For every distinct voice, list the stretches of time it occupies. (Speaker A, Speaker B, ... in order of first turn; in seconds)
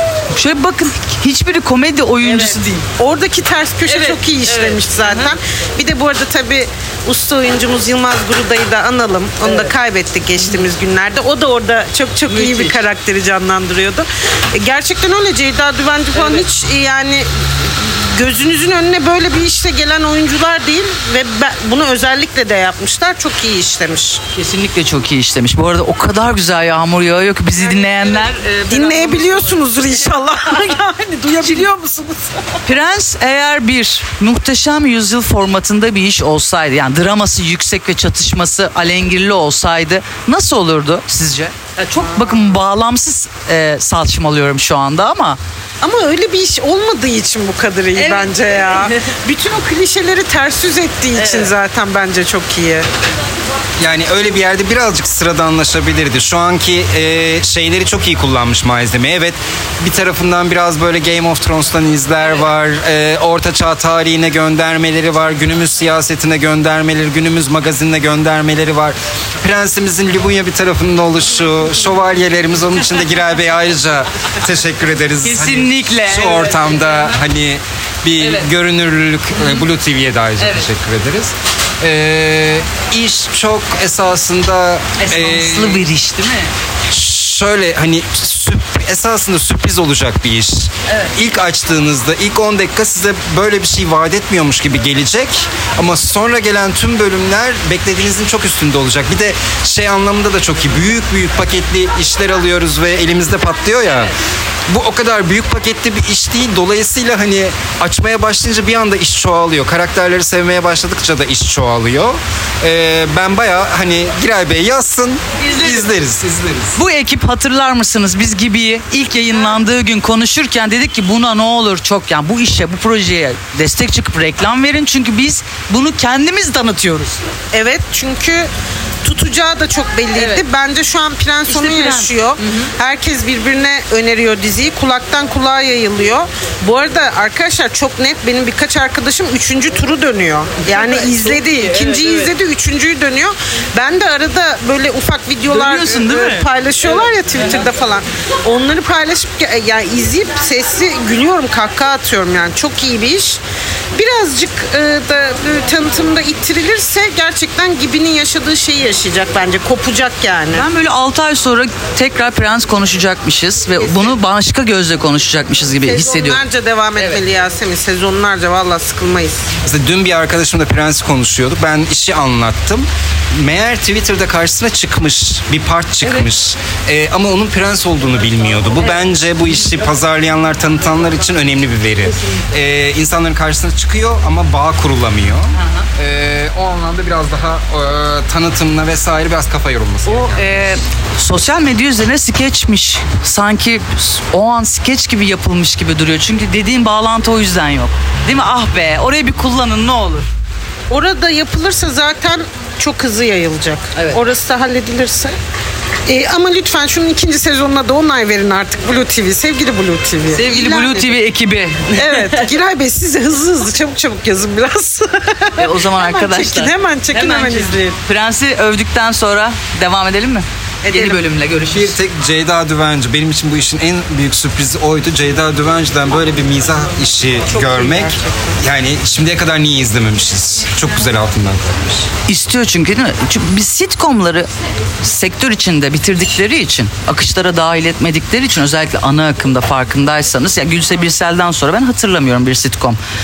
Speaker A: 0.3-2.9, 3.9-5.2, 12.3-12.8, 24.3-29.6, 32.6-45.4, 47.9-48.9, 51.1-51.5, 75.2-76.6, 78.2-78.5, 80.4-80.7, 85.0-86.5, 115.4-115.9, 116.7-127.2, 130.1-130.4, 131.5-132.7, 145.5-146.4, 160.5-166.4, 185.6-185.8, 190.1-200.3, 210.3-212.4, 215.6-221.9, 232.3-234.5, 235.0-243.0
Speaker B: 2.2-24.2, 27.6-32.6, 41.9-42.5, 45.8-52.8, 127.5-128.5, 129.0-153.4, 153.9-160.7, 163.8-164.2, 165.8-169.5, 200.9-205.3, 206.1-211.2, 211.9-218.0, 220.8-221.2, 227.5-228.5
Speaker C: 53.8-85.9, 86.9-104.1, 104.7-116.8, 169.6-190.4, 221.7-232.1